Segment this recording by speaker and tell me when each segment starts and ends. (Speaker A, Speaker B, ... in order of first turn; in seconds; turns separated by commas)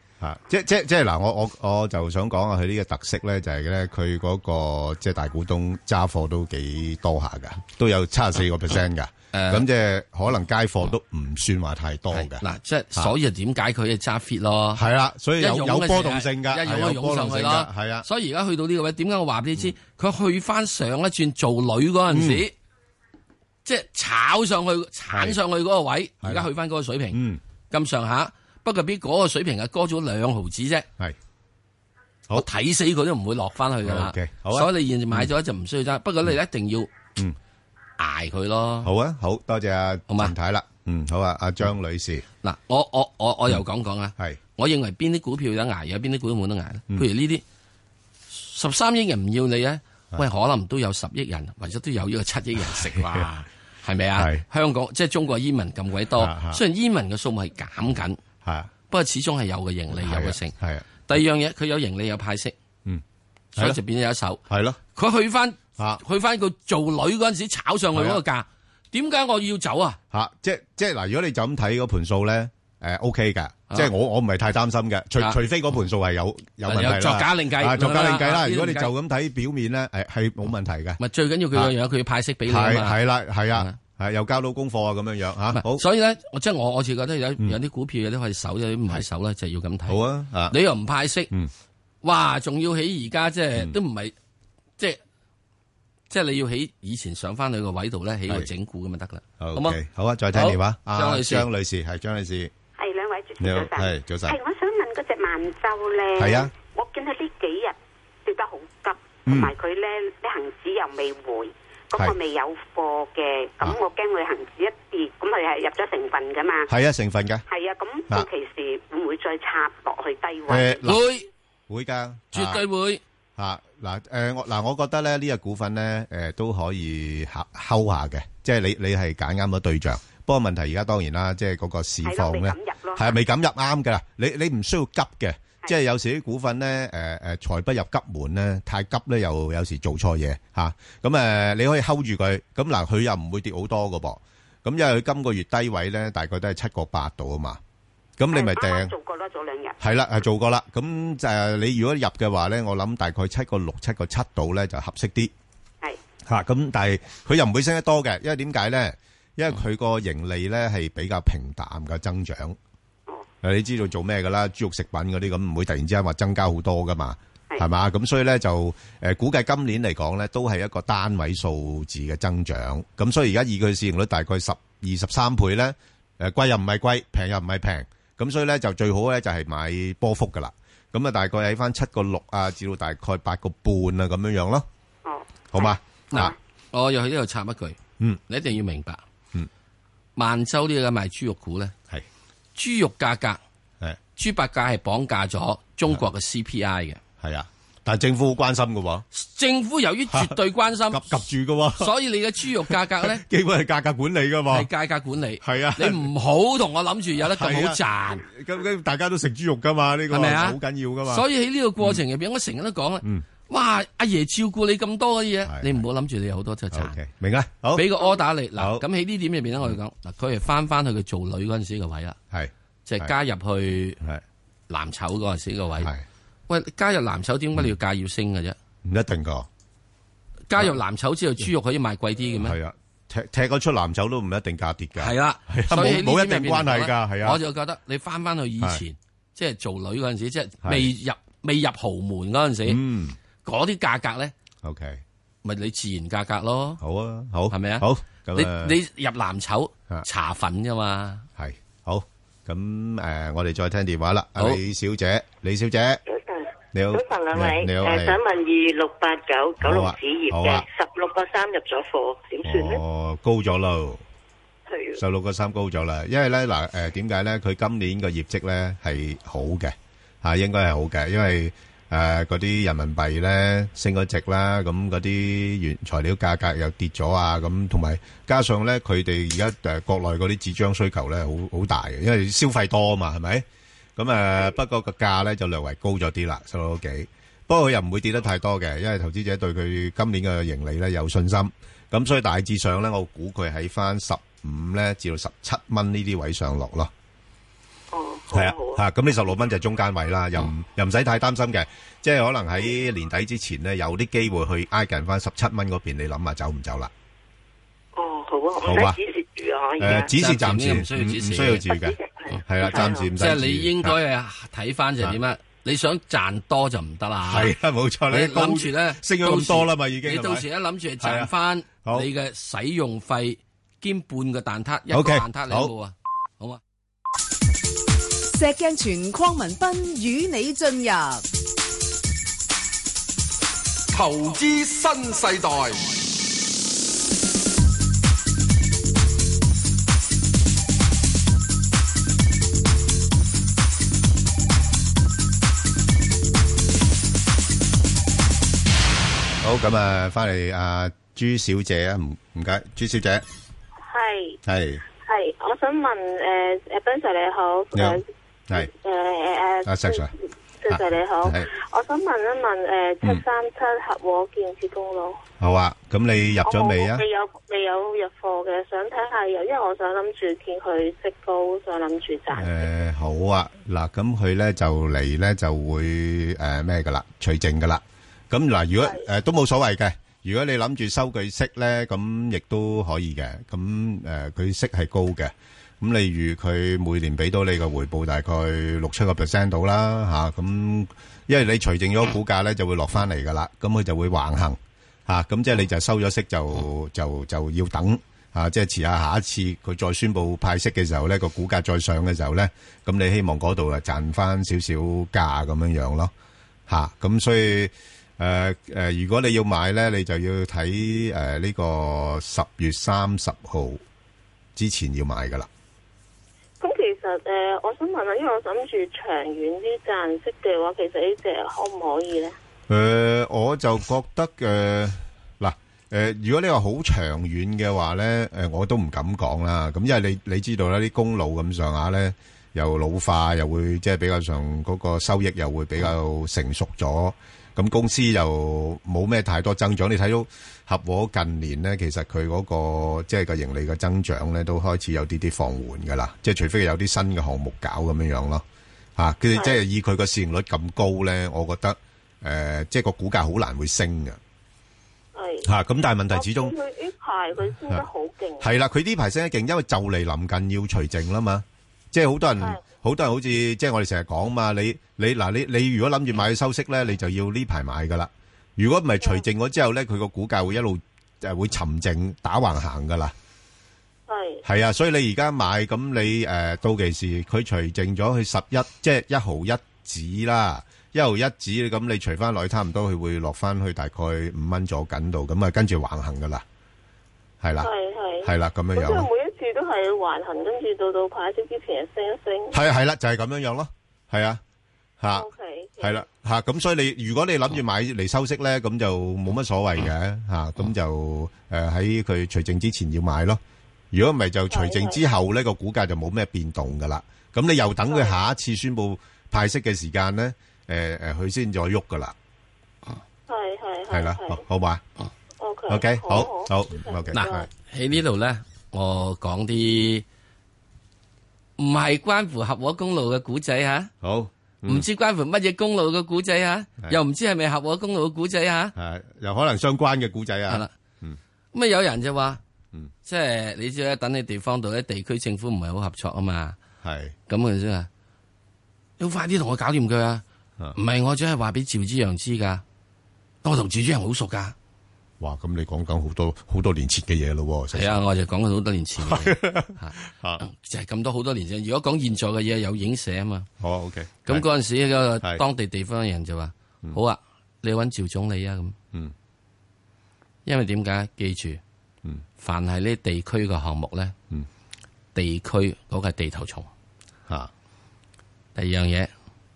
Speaker A: 0.2-12.4, Speaker B: 9.3-9.7, Speaker B: 12.1-14.8, Speaker A: 14.7-18.1, Speaker B: 15.4-22.5, Speaker A: 22.1-22.4, Speaker B: 23.6-30.9, Speaker A: 25.1-25.4, Speaker A: 26.2-26.5, Speaker A: 27.1-27.4, Speaker B: 32.3-36.9, Speaker A: 33.8-35.3, Speaker B: 38.0-38.9, Speaker A: 38.8-42.2, Speaker B: 40.1-40.3, Speaker B: 42.4-47.4, Speaker B: 48.3-58.2, Speaker A: 52.6-53.3, Speaker A: 54.2-54.4, Speaker A: 56.1-56.6, Speaker A: 58.4-58.7, Speaker B: 58.9-60.5, Speaker A: 59.9-60.9, Speaker B: 61.1-62.5, Speaker B: 63.5-64.4, Speaker A: 64.5-64.8, Speaker B: 64.9-70.0, Speaker A: 67.9-68.2, Speaker A: 70.1-81.0, Speaker B: 76.6-78.9, Speaker B: 81.0-83.0, Speaker A: 82.5-85.8, Speaker B: 85.5-90.0, Speaker A: 89.9-90.6, Speaker B: 90.5-91.3, Speaker B: 92.0-94.1, Speaker B: 96.1-99.8, Speaker A: 99.4-102.5, Speaker B: 100.3-101.5, Speaker C: 102.8-116.7, Speaker A: 103.4-104.4, Speaker A: 106.2-106.5, Speaker A: 109.2-109.5, Speaker A: 116.7-117.4, Speaker C: 117.5-120.8, Speaker A: 120.5-121.0, Speaker B: 120.8-121.3, Speaker A: 121.7-122.6, Speaker B: 122.3-123.0, Speaker A: 123.4-147.6, Speaker C: 132.0-133.2, Speaker A: 148.2-148.9, Speaker C: 148.3-149.8, Speaker A: 149.8-155.3, Speaker A: 156.3-162.6, Speaker A: 163.4-184.7, Speaker C: 185.0-186.3, Speaker A: 185.5-186.3, Speaker B: 186.1-189.0, Speaker B: 190.2-191.7, Speaker B: 192.6-193.4, Speaker B: 194.2-197.0, Speaker A: 197.2-199.1, Speaker B: 199.1-201.2, Speaker A: 200.1-200.4, Speaker A: 200.9-201.9, Speaker B: 201.8-203.2, Speaker A: 202.7-204.7, Speaker B: 204.5-208.3, Speaker A: 205.4-206.1, Speaker A: 207.2-211.2, Speaker B: 210.1-217.0, Speaker A: 215.4-215.8, Speaker A: 216.7-218.0, Speaker B: 217.7-222.2, Speaker A: 218.6-218.8, Speaker A: 222.3-223.1, Speaker B: 222.8-224.0, Speaker B: 224.7-225.9, Speaker B: 226.5-228.6, Speaker A: 228.8-229.5, Speaker B: 230.5-232.6, Speaker A: 232.4-237.4, Speaker B: 235.0-242.8, Speaker A: 240.6-240.9, Speaker A: 242.7-243.2, Speaker B: 243.4-244.3, Speaker A: 244.6-245.0, Speaker B: 245.4-246.8, Speaker A: 246.8-248.8, Speaker B: 247.5-251.3, Speaker A: 251.4-256.0, Speaker D: 256.1-256.4, Speaker A: 256.7-258.2, Speaker D: 256.9-262.8, Speaker A: 259.6-260.7, Speaker A: 262.4-264.0, Speaker D: 264.7-265.0, Speaker A: 265.0-283.4, Speaker A: 284.0-296.9, Speaker D: 297.9-298.8, Speaker A: 298.3-306.9, Speaker D: 307.9-310.1, Speaker A: 308.6-309.0, Speaker A: 309.8-313.9, Speaker B: 309.9-311.7, Speaker B: 312.3-317.5, Speaker D: 312.6-313.0, Speaker A: 317.2-320.4, Speaker B: 318.1-326.6, Speaker A: 321.0-321.3, Speaker A: 321.8-322.1, Speaker A: 324.9-325.7, Speaker E: 328.3-331.2, Speaker F: 333.9-335.9, Speaker A: 349.4-353.2, Speaker G: 353.8-354.4, Speaker A: 354.4-354.8, Speaker G: 355.0-365.2, Speaker A: 357.7-358.7, Speaker A: 359.6-360.1, Speaker A: 360.7-361.5, Speaker A: 365.4-367.0, Speaker G: 366.4-372.6, Speaker A: 372.3-406.1, Speaker A: 406.7-413.8, Speaker A: 414.6-415.5, Speaker G: 416.6-422.3, Speaker A: 422.7-448.4, Speaker A: 449.0-454.2, Speaker G: 449.3-449.6, Speaker G: 455.1-455.5, Speaker A: 455.4-456.5, Speaker G: 456.1-458.5, Speaker A: 458.4-473.1, Speaker G: 474.1-474.4, Speaker A: 474.4-486.4, Speaker A: 487.4-487.7, Speaker G: 487.6-492.6, Speaker A: 488.2-489.1, Speaker A: 492.5-494.4, Speaker A: 495.0-495.3, Speaker G: 495.1-496.0, Speaker A: 495.8-503.4, Speaker A: 503.9-512.1, Speaker G: 504.5-505.0, Speaker G: 507.9-508.2, Speaker G: 513.3-514.4, Speaker A: 513.9-514.8, Speaker G: 515.4-517.5, Speaker A: 515.7-517.5, Speaker B: 517.1-520.0, Speaker B: 521.6-523.9, Speaker A: 524.0-524.9, Speaker B: 524.6-528.7, Speaker A: 528.8-531.2, Speaker B: 531.5-532.4, Speaker B: 533.0-536.6, Speaker A: 536.8-537.1, Speaker B: 537.3-537.9, Speaker B: 539.0-540.2, Speaker B: 540.7-542.6, Speaker B: 543.4-544.5, Speaker A: 545.2-548.0, Speaker B: 547.7-553.5, Speaker A: 549.0-550.4, Speaker A: 553.6-554.5, Speaker B: 554.2-558.8, Speaker B: 560.5-561.6, Speaker B: 562.4-564.1, Speaker B: 565.1-566.7, Speaker B: 568.5-569.1